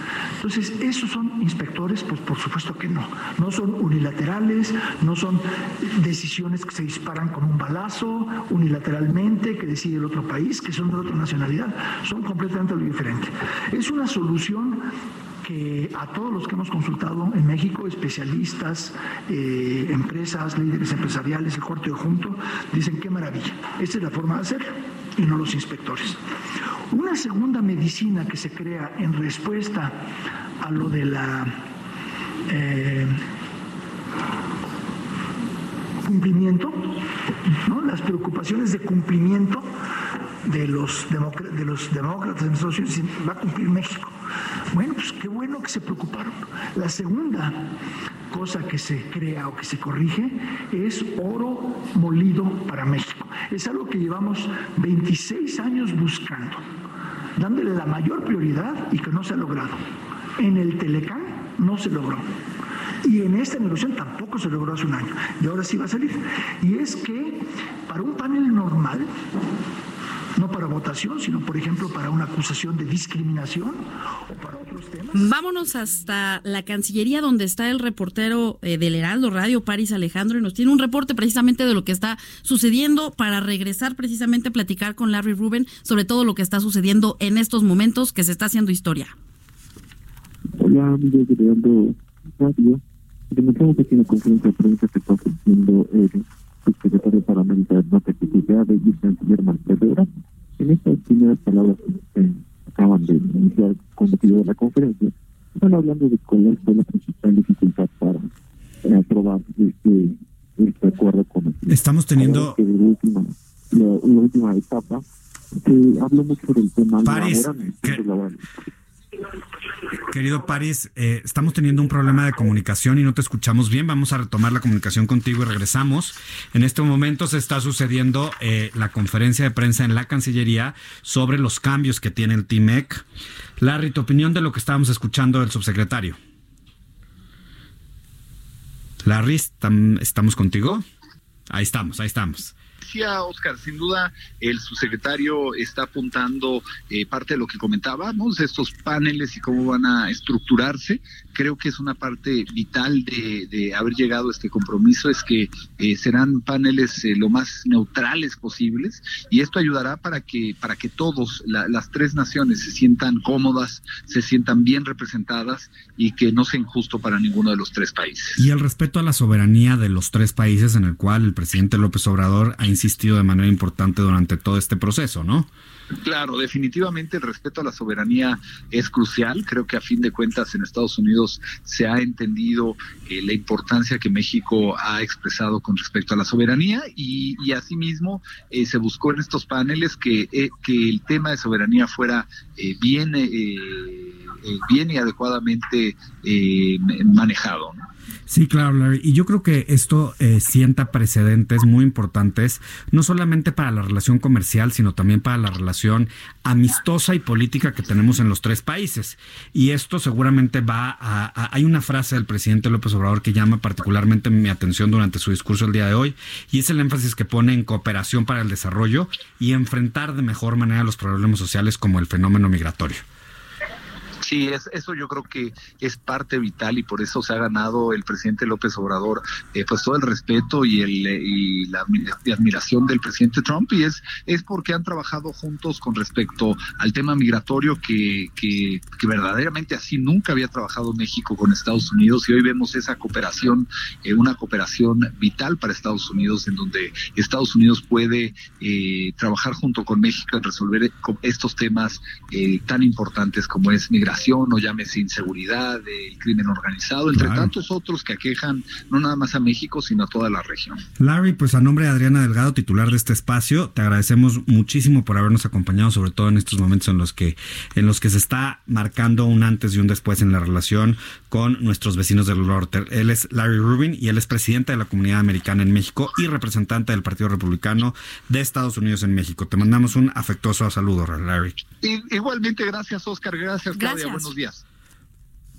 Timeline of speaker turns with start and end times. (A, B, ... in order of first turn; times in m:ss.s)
0:00.4-0:14.9 A
0:15.4-0:26.2 A
0:26.9-0:30.1 A
0:30.6-0:31.6 A
0:32.5-0:33.2 A
0:36.0-0:37.0 A
0:37.6-0:39.7 A
0:40.4-0:44.2 A
0:44.7-0:47.6 A
0:48.3-0:56.6 A
0:57.4-0:59.8 A
1:00.4-1:02.3 A
1:03.0-1:09.1 A
1:10.4-1:15.3 A
1:15.1-1:29.1 B
1:30.6-1:40.1 C
1:40.6-1:48.3 C
1:48.8-1:55.0 C
1:51.7-1:52.6 D
1:55.6-1:58.4 C
1:57.0-1:58.0 D
2:00.0-2:13.0 D
2:13.6-2:16.2 D
2:19.0-2:20.8 D
2:21.5-2:22.6 D
2:22.8-2:48.5 E
2:48.4-2:55.5 D
2:56.0-3:17.8 E
3:18.3-3:43.0 D
3:44.2-4:20.8 E
4:17.1-4:17.5 D
4:21.0-4:41.6 D
4:41.8-4:44.6 E
4:43.8-4:44.3 B